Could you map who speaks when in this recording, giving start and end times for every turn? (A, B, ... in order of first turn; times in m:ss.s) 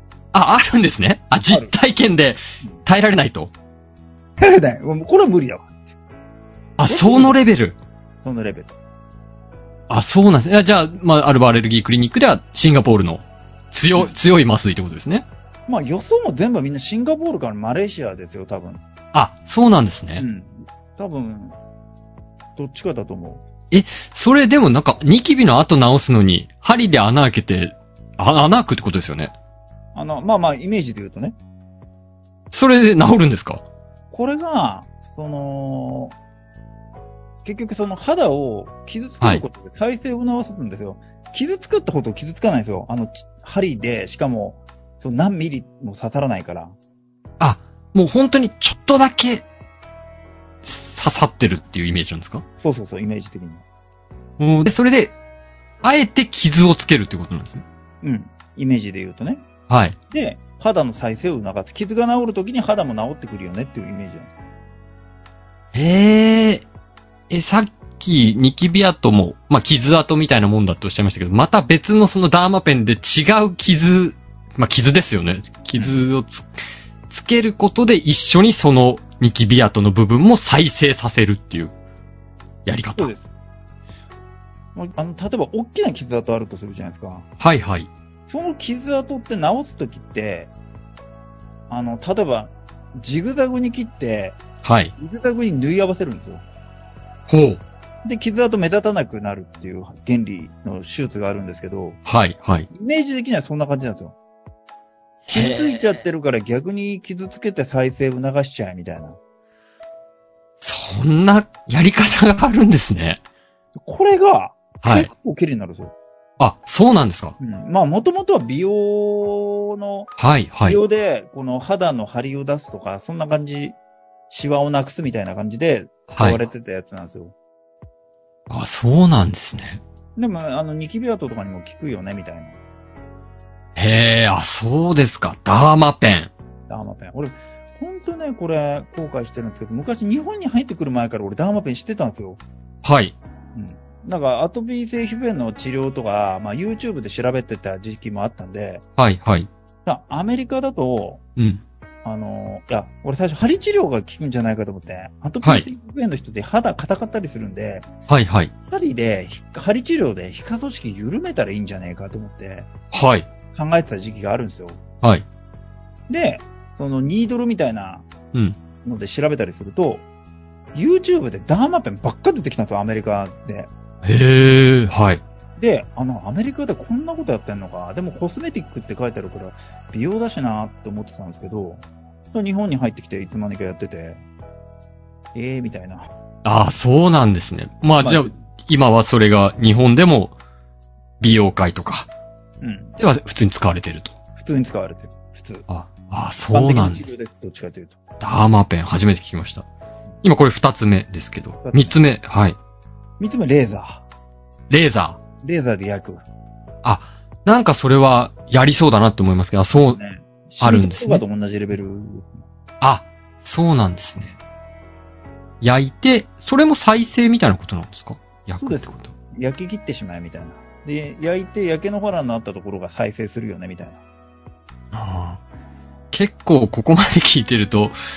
0:00.3-0:03.5 A
0:01.5-0:01.7 B
0:04.4-0:05.9 B
0:06.8-0:07.8 A
0:06.8-0:07.4 B
0:08.2-0:08.7 B
0:09.9-0:15.2 A
0:15.7-0:18.8 B
0:19.1-0:20.2 A
0:20.2-0:21.6 B
0:22.6-0:23.4 B
0:23.7-0:29.3 A
0:29.9-0:31.4 B
0:32.5-0:33.6 A
0:34.1-0:36.1 B
0:37.4-0:46.7 B
0:47.4-0:49.4 A
0:50.6-0:52.4 A
0:52.6-0:53.6 B
0:54.4-0:55.1 A
0:55.8-0:57.6 A
0:58.0-0:59.4 B
0:59.7-1:00.0 A
1:00.1-1:04.4 B
1:05.7-1:06.7 A
1:07.3-1:16.5 A
1:17.1-1:21.7 A
1:22.6-1:23.1 A
1:23.0-1:23.3 B
1:24.7-1:27.2 B
1:27.4-1:27.9 A
1:28.3-1:30.5 B
1:31.7-1:34.4 B
1:34.6-1:34.9 A
1:35.0-1:36.4 B
1:37.3-1:37.6 A
1:38.0-1:42.0 B
1:42.0-1:42.7 A
1:42.7-1:44.1 B
1:45.3-1:46.0 A
1:45.3-1:49.2 B
1:50.6-1:53.2 A
1:53.8-1:55.9 B
1:54.8-1:55.1 A
1:56.4-1:57.4 A
1:57.4-2:00.1 B
2:00.2-2:00.8 A
2:00.6-2:03.8 B
2:04.3-2:07.3 B
2:06.1-2:06.4 A
2:08.5-2:09.8 A
2:10.2-2:12.6 B
2:13.8-2:16.3 A
2:16.7-2:22.4 B
2:22.8-2:23.1 A
2:23.5-2:28.8 B
2:29.0-2:29.5 A
2:29.8-2:31.2 B
2:31.4-2:31.6 A
2:32.0-2:37.9 B
2:35.4-2:35.7 A
2:38.1-2:38.5 A
2:38.7-2:42.7 B
2:42.9-2:43.3 A
2:43.5-2:44.8 B
2:46.1-2:48.0 B
2:48.8-2:50.0 B
2:50.7-2:53.7 B
2:54.0-2:55.2 A
2:55.6-3:04.2 B
3:05.3-3:06.1 B
3:06.4-3:10.4 A
3:08.0-3:08.3 B
3:11.2-3:12.1 A
3:12.6-3:13.0 B
3:13.0-3:14.2 A
3:14.4-3:15.6 B
3:15.7-3:17.1 A
3:16.5-3:18.0 B
3:18.2-3:19.7 A
3:20.2-3:22.6 A
3:21.6-3:22.0 B
3:23.2-3:24.0 B
3:24.7-3:25.2 A
3:25.4-3:26.2 B
3:26.8-3:30.0 A
3:29.7-3:32.5 B
3:30.6-3:31.2 A
3:32.8-3:34.4 A
3:35.6-3:39.1 A
3:38.6-3:44.0 B
3:44.9-3:45.4 A
3:46.1-3:47.9 A